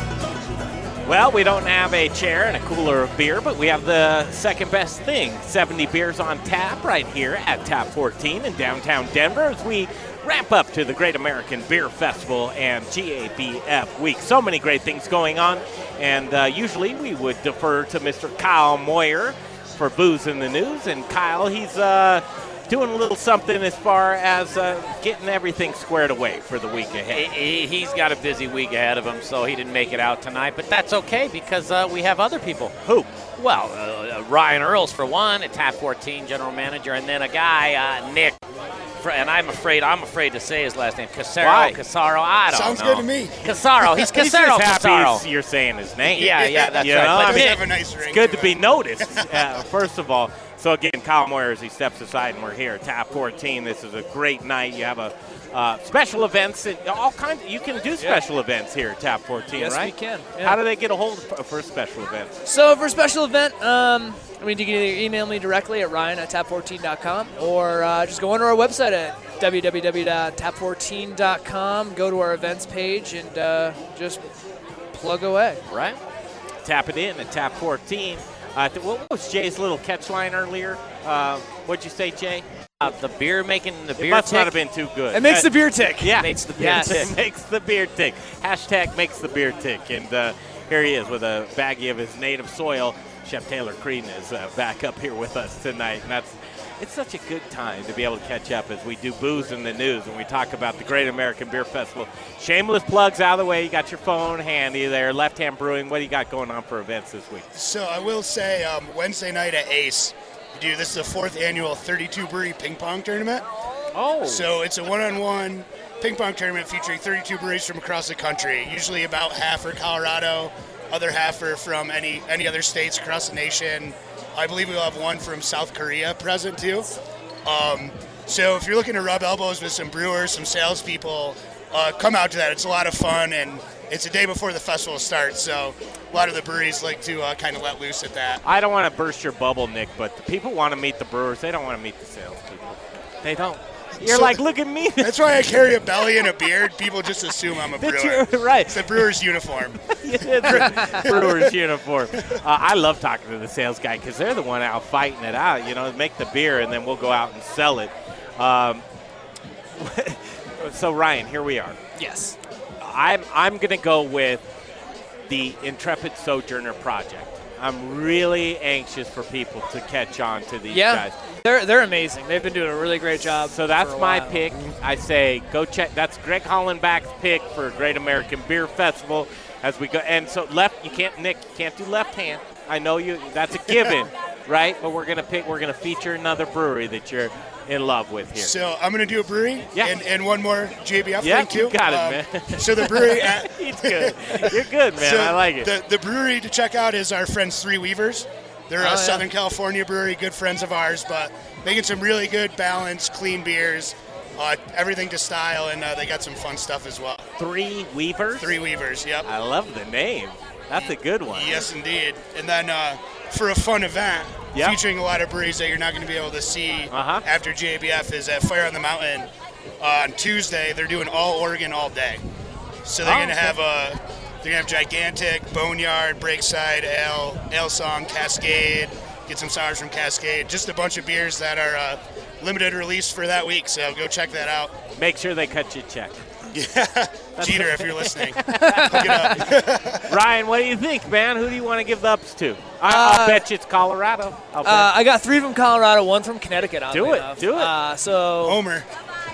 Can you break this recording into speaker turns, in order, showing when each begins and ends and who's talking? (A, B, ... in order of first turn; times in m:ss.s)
0:01.0-0:27.3 A
0:27.1-0:32.8 B
0:32.8-0:33.1 A
0:33.4-0:38.4 B
0:39.0-0:45.2 B
0:41.4-0:41.8 A
0:42.5-0:43.4 C
0:43.8-1:02.4 A
0:46.1-0:47.6 B
0:46.2-0:49.6 C
0:59.5-1:00.6 D
1:02.4-1:14.2 D
1:14.9-1:15.6 D
1:15.7-1:16.0 B
1:16.6-1:22.4 A
1:22.8-1:24.5 B
1:24.0-1:47.4 A
1:25.1-1:27.1 D
1:26.2-1:27.1 B
1:47.5-1:53.4 C
1:53.9-1:54.5 A
1:54.2-2:18.4 C
2:18.4-2:25.5 A
2:24.0-2:24.4 C
2:25.0-2:31.4 C
2:27.6-2:29.1 A
2:29.9-2:38.8 A
2:39.7-2:41.8 A
2:42.0-2:42.4 D
2:42.8-2:44.4 A
2:45.3-2:51.1 A
2:50.7-2:54.6 D
2:53.4-3:08.5 A
3:08.4-3:27.2 C
3:09.7-3:10.0 A
3:11.2-3:15.7 A
3:18.8-3:19.2 D
3:27.4-3:28.5 A
3:28.4-3:29.3 C
3:29.2-3:31.7 A
3:30.7-3:39.3 C
3:36.9-3:37.2 A
3:39.8-3:42.2 C
3:42.8-3:54.7 C
3:43.0-3:43.5 A
3:55.0-3:56.2 A
3:56.5-4:00.2 C
3:57.4-4:04.9 A
3:58.5-3:59.5 D
4:02.8-4:03.4 D
4:04.6-4:08.6 D
4:06.9-4:07.7 A
4:08.4-4:08.9 C